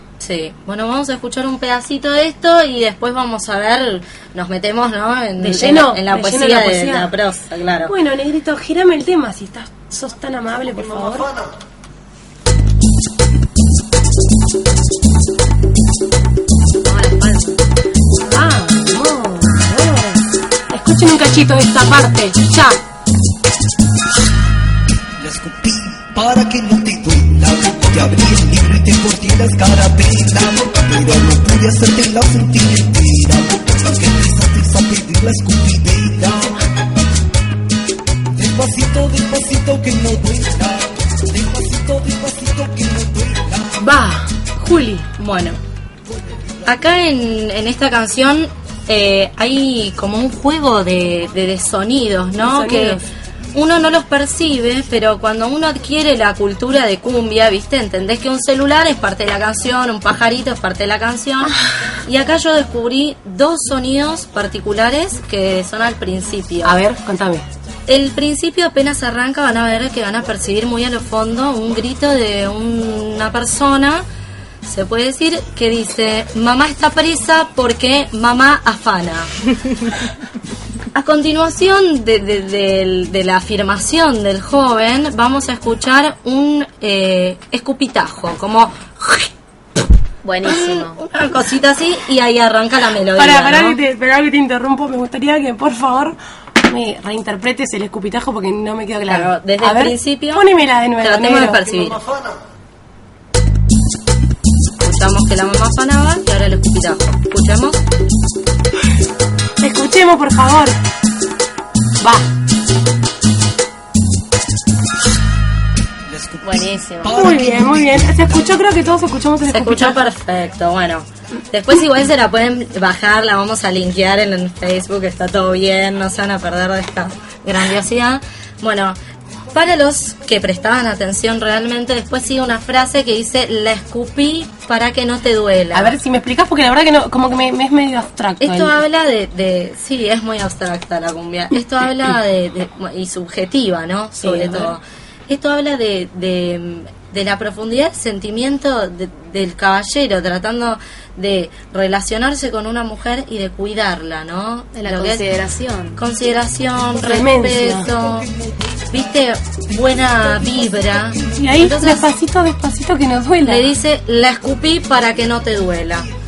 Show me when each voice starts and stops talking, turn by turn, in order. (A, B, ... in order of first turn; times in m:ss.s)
0:00.2-0:07.9 A
0:05.4-0:07.1 B
0:07.8-0:11.3 B
0:16.8-0:17.6 C
0:18.3-0:22.8 B
0:25.2-0:36.6 D
0:38.3-0:43.8 D
0:43.8-0:45.1 B
0:45.2-0:45.6 A
0:46.6-0:53.0 A
0:52.4-0:53.0 B
0:53.5-1:06.8 A
1:06.6-1:07.4 B
1:07.9-1:14.0 A
1:14.6-1:19.7 A
1:20.9-1:29.3 A
1:30.2-1:31.0 C
1:30.4-1:33.8 A
1:33.2-1:41.7 B
1:39.1-1:42.0 A
1:41.9-1:42.3 D
1:44.8-1:47.8 A
1:49.6-1:50.8 B
1:56.1-1:58.2 D
1:56.4-1:57.4 C
1:57.1-2:00.0 B
1:59.5-2:09.0 A
2:09.5-2:16.0 A
2:15.7-2:18.8 B
2:18.4-2:35.2 A
2:24.2-2:24.7 B
2:34.8-2:36.0 C
2:36.0-2:38.3 A
2:37.0-2:37.9 B
2:38.9-2:42.1 A
2:41.4-2:43.7 B
2:43.4-2:46.1 A